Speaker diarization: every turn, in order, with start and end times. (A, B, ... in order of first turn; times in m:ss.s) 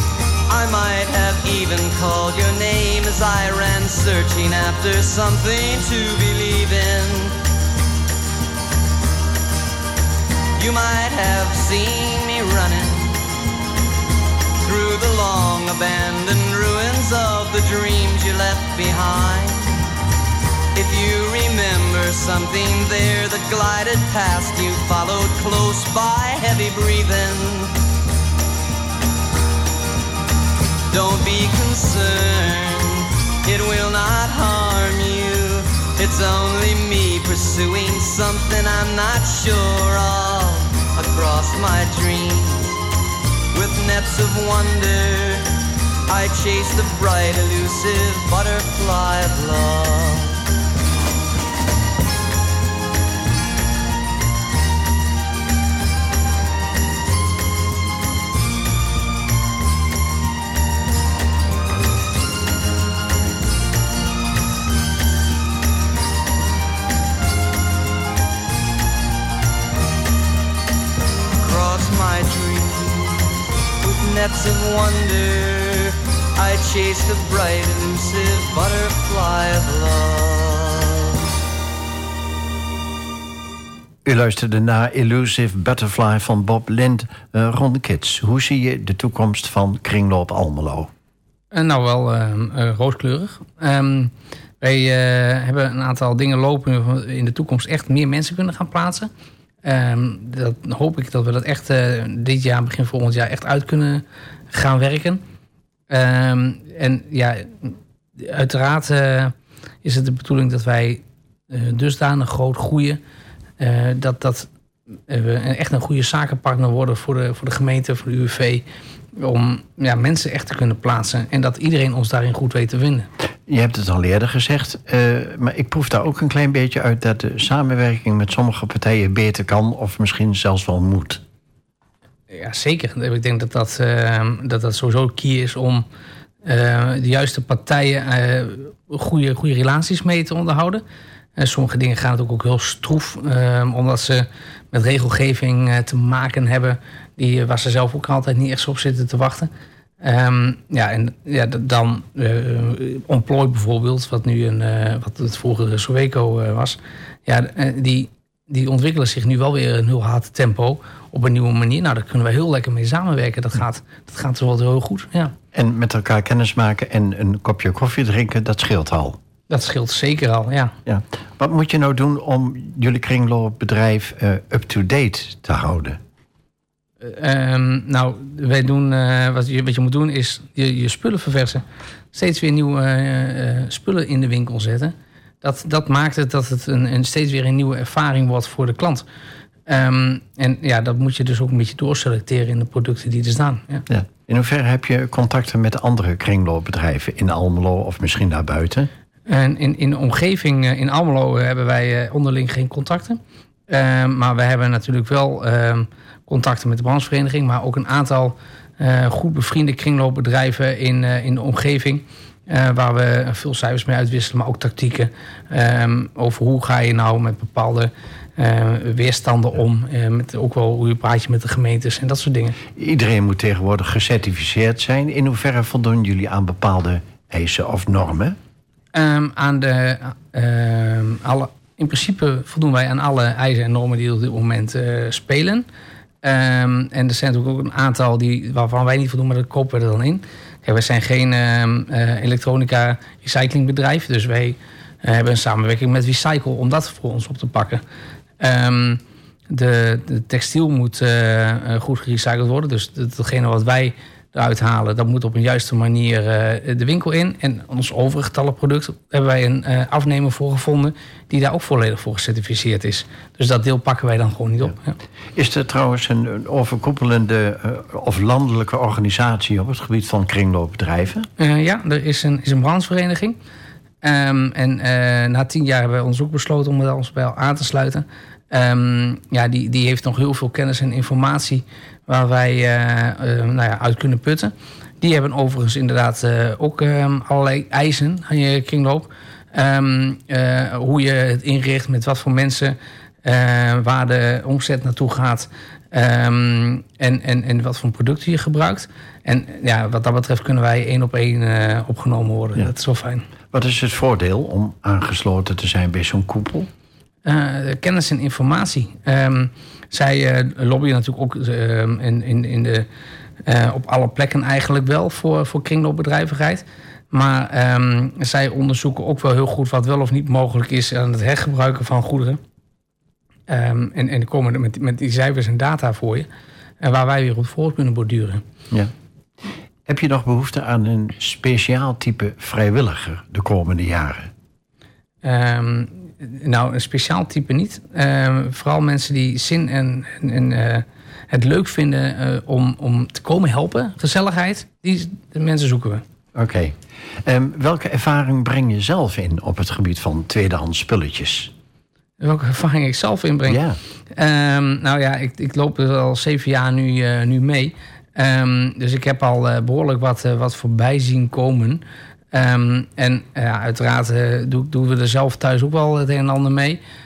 0:00.5-0:07.3 A
0:10.6-0:13.2 A
0:14.6-0:19.8 A
0:20.7-0:27.7 A
0:30.9-0:42.8 A
0:43.5-0:45.5 A
0:46.1-0:50.4 A
1:11.4-1:13.3 A
1:13.8-1:21.1 A
1:24.0-1:30.9 B
1:31.5-1:39.1 C
1:39.6-1:45.2 C
1:45.9-1:53.0 C
1:53.6-1:54.5 C
1:55.1-1:58.6 C
1:59.2-2:03.1 C
2:03.5-2:11.2 B
2:12.3-2:15.8 C
2:16.4-2:20.8 C
2:21.4-2:29.5 C
2:30.0-2:45.3 C
2:45.5-2:49.2 B
2:49.5-2:50.7 C
2:50.8-2:56.0 B
2:57.0-3:09.0 C
3:09.7-3:13.8 C
3:13.9-3:18.9 B
3:19.3-3:42.6 C
3:42.8-3:48.4 B
3:48.9-3:55.6 C
3:56.2-4:07.8 C
4:08.4-4:25.0 C
4:25.3-4:31.3 B
4:31.4-4:33.4 C
4:34.0-5:03.2 C
5:03.5-5:06.7 B
5:07.2-5:12.9 C
5:13.4-5:22.4 C
5:23.5-5:26.3 C
5:26.8-5:28.4 C
5:29.8-5:34.3 B
5:35.2-5:46.0 C
5:46.3-5:51.5 B
5:52.2-6:06.8 C
5:53.5-5:53.8 B